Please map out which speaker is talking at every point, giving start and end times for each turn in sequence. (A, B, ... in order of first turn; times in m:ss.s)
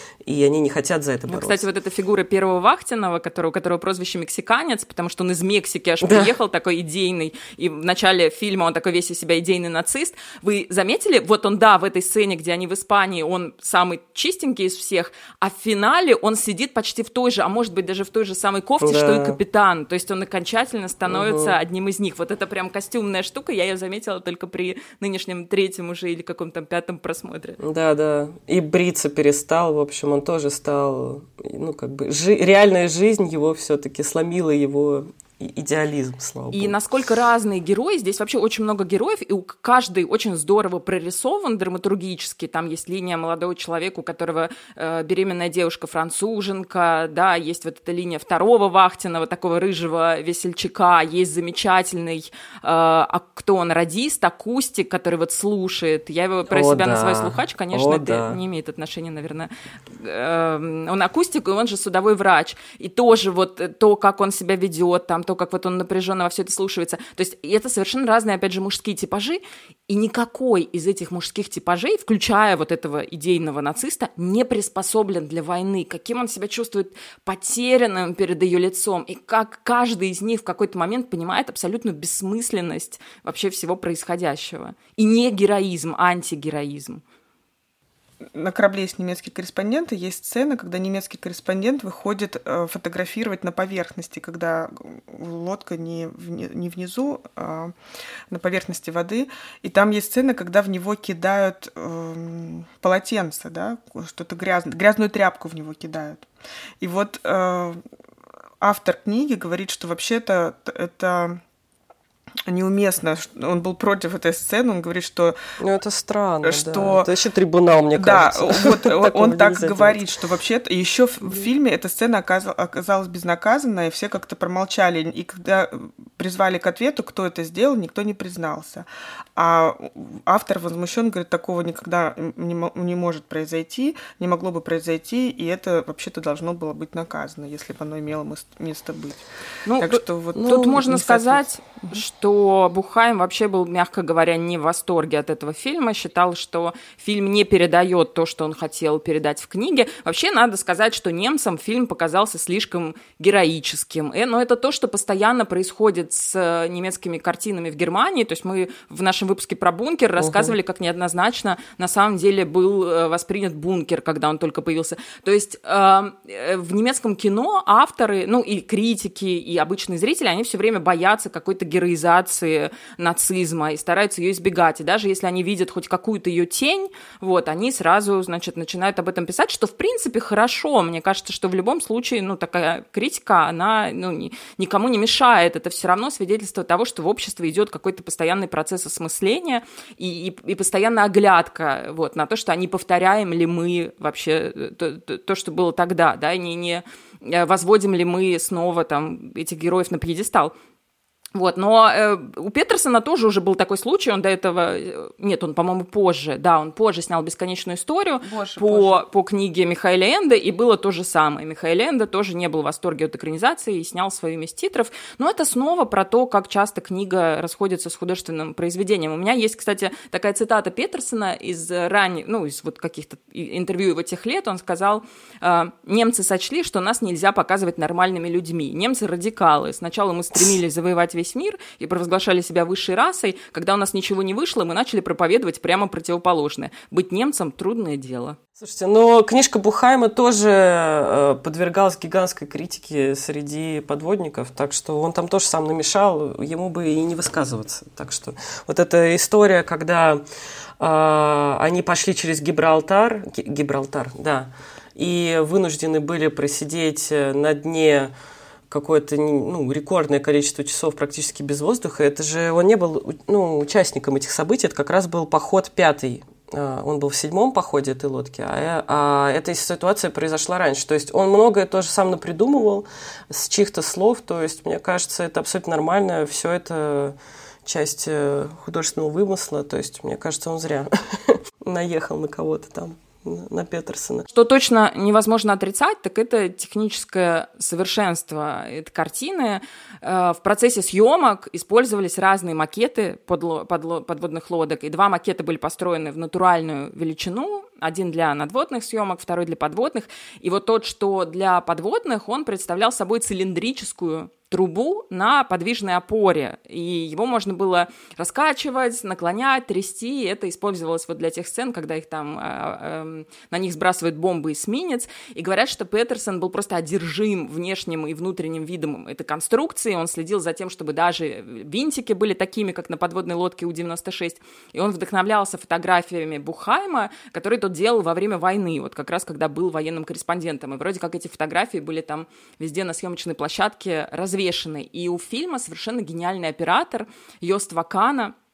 0:00.2-0:01.6 A
0:01.3-0:27.6 B
0:06.0-0:06.3 A
0:18.8-0:19.4 A
0:21.1-0:21.6 A
0:27.6-0:36.8 A
0:36.5-1:27.0 B
0:56.5-0:58.4 A
1:28.3-1:37.7 C
1:38.3-1:46.2 C
1:46.8-1:47.8 C
1:48.6-1:51.4 C
1:52.5-1:55.4 C
1:55.6-2:00.1 A
1:56.4-1:57.1 C
1:58.0-2:19.2 C
2:19.6-3:20.5 B
2:19.8-2:21.4 C
2:20.4-2:20.8 A
2:40.2-2:40.6 A
3:21.4-3:58.4 B
3:28.2-3:29.0 C
3:58.6-4:10.2 A
4:10.8-4:18.1 A
4:18.7-4:44.3 A
4:44.3-5:38.3 B